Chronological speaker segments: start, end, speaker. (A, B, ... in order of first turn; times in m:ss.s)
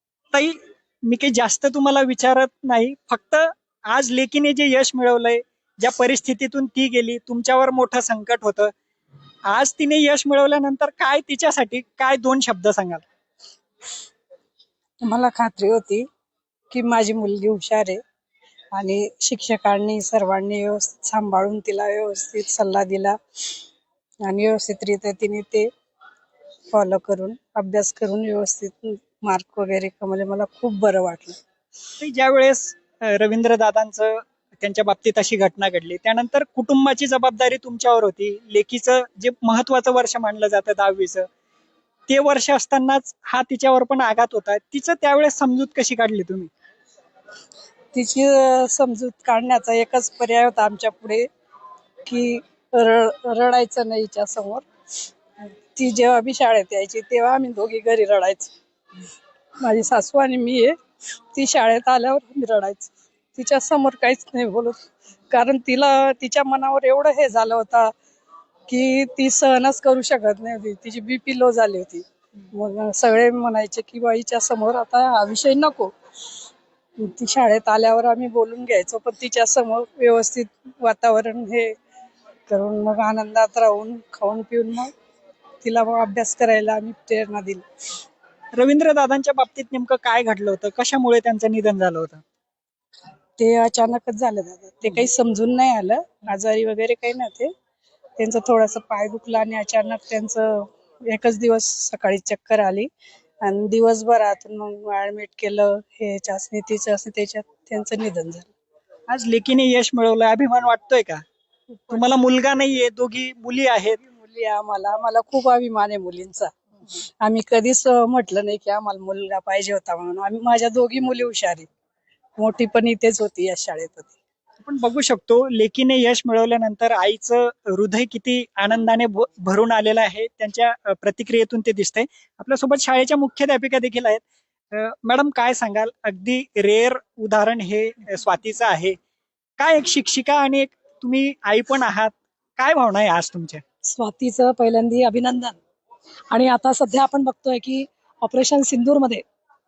0:00.3-0:08.7 A
0:09.5-0:13.0 A
0:15.0-0:16.0 B
0:16.7-0:18.0 B
0:18.7-0:23.2 B
0:24.2-0:25.7 B
0:26.7-0:31.4 B
0:32.0-0:41.2 A
0:42.1-0:46.5 A
0:47.9-0:51.3 B
0:52.0-0:54.6 B
0:55.8-0:58.5 B
0:59.6-1:00.7 B
1:01.3-1:04.8 B
1:05.3-1:07.9 B
1:08.7-1:15.9 B
1:17.0-1:21.7 B
1:22.5-1:24.9 B
1:25.6-1:27.6 B
1:28.6-1:32.2 A
1:33.4-1:37.5 B
1:38.2-1:42.9 B
1:43.4-1:48.5 B
1:49.1-1:51.2 A
1:51.9-1:54.0 A
1:54.1-1:56.5 B
1:57.2-2:01.7 B
2:02.4-2:04.1 B
2:04.6-2:19.0 A
2:19.6-2:23.6 A
2:23.8-2:25.6 C
2:26.3-2:29.2 C